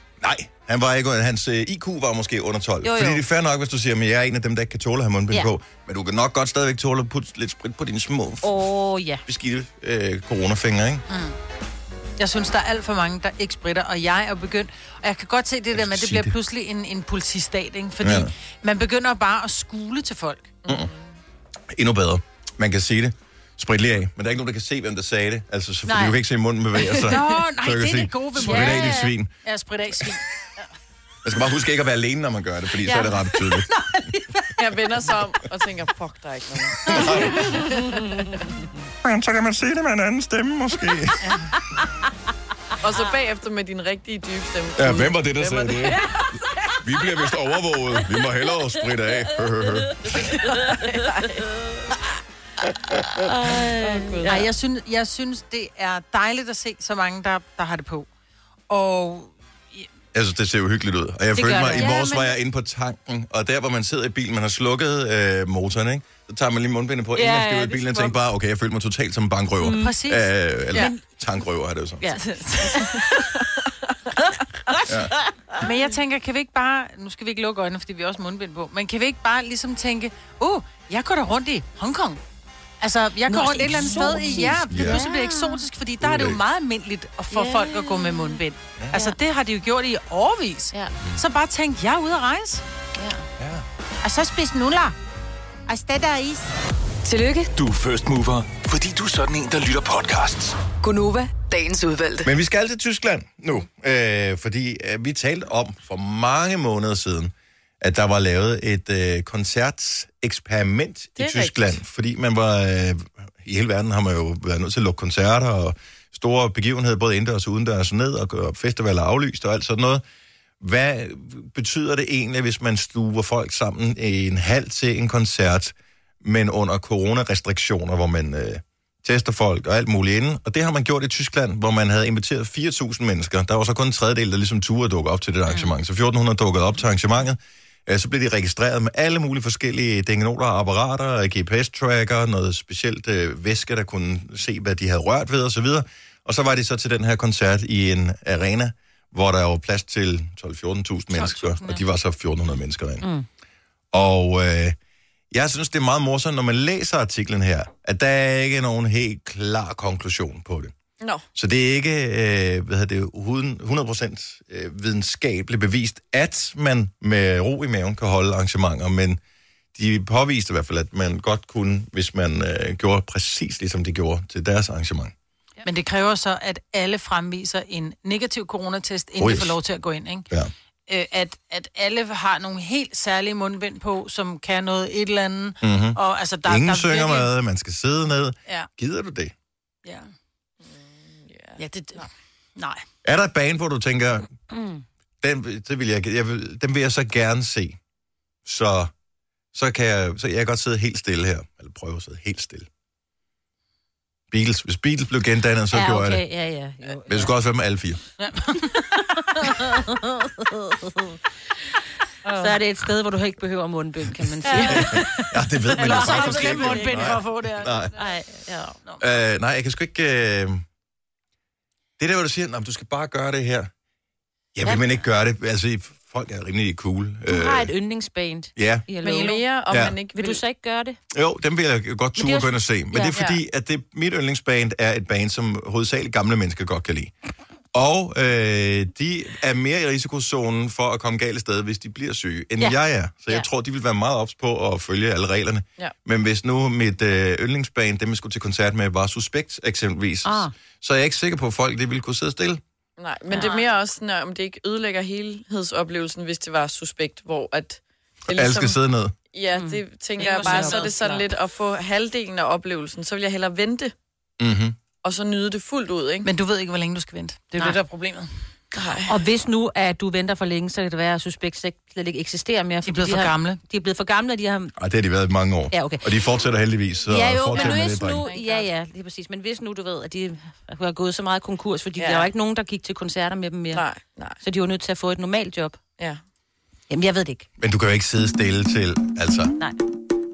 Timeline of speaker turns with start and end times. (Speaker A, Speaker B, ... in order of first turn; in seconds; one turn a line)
Speaker A: 0.2-8.5
Speaker B: 2.8-3.2
Speaker B: 8.4-9.2
Speaker A: 9.2-11.0
Speaker C: 11.1-11.3
Speaker C: 12.2-20.6
Speaker A: 15.7-16.3
Speaker A: 18.0-18.3
Speaker D: 20.6-21.1
Speaker A: 21.7-29.3
Speaker B: 25.9-26.2
Speaker C: 27.0-30.2
Speaker B: 28.4-29.1
Speaker A: 31.2-33.7
Speaker B: 32.8-33.7
Speaker D: 34.6-38.2
Speaker A: 36.8-37.5
Speaker B: 37.7-38.4
Speaker A: 39.0-41.3
Speaker D: 42.8-46.0
Speaker A: 44.8-46.0
Speaker A: 46.8-50.1
Speaker D: 50.2-51.4
Speaker B: 50.6-51.1
Speaker B: 53.1-54.5
Speaker D: 53.8-54.3
Speaker C: 54.2-58.1
Speaker C: 58.7-59.9
Speaker A: 60.1-72.1
Speaker B: 61.3-62.3
Speaker C: 61.6-62.3
Speaker B: 67.1-68.2
Speaker B: 69.6-70.0
Speaker C: 69.7-71.0
Speaker C: 72.1-72.9
Speaker B: 72.8-73.1
Speaker A: 74.8-75.1
Speaker C: 75.6-82.2
Speaker C: 82.8-92.6
Speaker B: 83.3-85.7
Speaker A: 84.7-85.0
Speaker A: 86.0-86.4
Speaker B: 87.3-88.4
Speaker B: 88.9-89.2
Speaker B: 93.0-93.2
Speaker A: 93.4-93.6
Speaker C: 94.0-94.9
Speaker C: 95.7-96.5
Speaker E: 97.0-97.5
Speaker F: 97.5-100.6
Speaker E: 100.8-102.3
Speaker A: 102.2-120.0
Speaker D: 111.2-111.8
Speaker A: 120.6-153.0
Speaker C: 151.1-151.8
Speaker A: 153.9-154.8
Speaker A: 155.3-160.7
Speaker A: 161.3-169.2
Speaker A: 169.7-175.1
Speaker C: 175.6-180.3
Speaker A: 179.2-179.6
Speaker C: 180.9-187.3
Speaker A: 185.6-189.3
Speaker C: 189.8-190.1
Speaker D: 190.6-192.1
Speaker C: 191.6-192.8
Speaker A: 193.0-194.3
Speaker A: 195.2-197.8
Speaker A: 198.4-198.9
Speaker A: 199.5-202.7
Speaker A: 204.3-206.2
Speaker B: 205.7-207.3
Speaker A: 207.1-208.0
Speaker C: 208.2-209.0
Speaker B: 209.6-211.2
Speaker C: 212.2-212.6
Speaker B: 212.3-217.2
Speaker C: 214.4-218.0
Speaker A: 214.7-217.9
Speaker B: 217.9-218.8
Speaker A: 219.0-220.6
Speaker A: 222.0-223.7
Speaker A: 224.5-227.7
Speaker B: 224.6-225.0
Speaker B: 227.3-231.0
Speaker A: 228.6-228.8
Speaker D: 229.0-230.4
Speaker A: 231.1-237.1
Speaker B: 232.2-233.2
Speaker D: 233.1-233.4
Speaker A: 237.7-252.6
Speaker B: 250.2-250.5
Speaker D: 253.0-258.8
Speaker B: 253.3-253.7
Speaker A: 258.3-259.1
Speaker D: 259.3-263.9
Speaker B: 259.5-261.2
Speaker C: 260.2-261.2
Speaker A: 264.4-264.8
Speaker D: 265.0-266.3
Speaker C: 266.2-268.3
Speaker D: 268.7-269.1
Speaker B: 269.0-274.7
Speaker C: 272.8-273.6
Speaker A: 274.8-278.2
Speaker B: 275.7-276.0
Speaker B: 277.1-283.8
Speaker D: 277.6-278.7
Speaker D: 282.0-282.3
Speaker D: 283.7-284.4
Speaker B: 284.4-285.8
Speaker B: 286.9-287.4
Speaker A: 287.6-289.5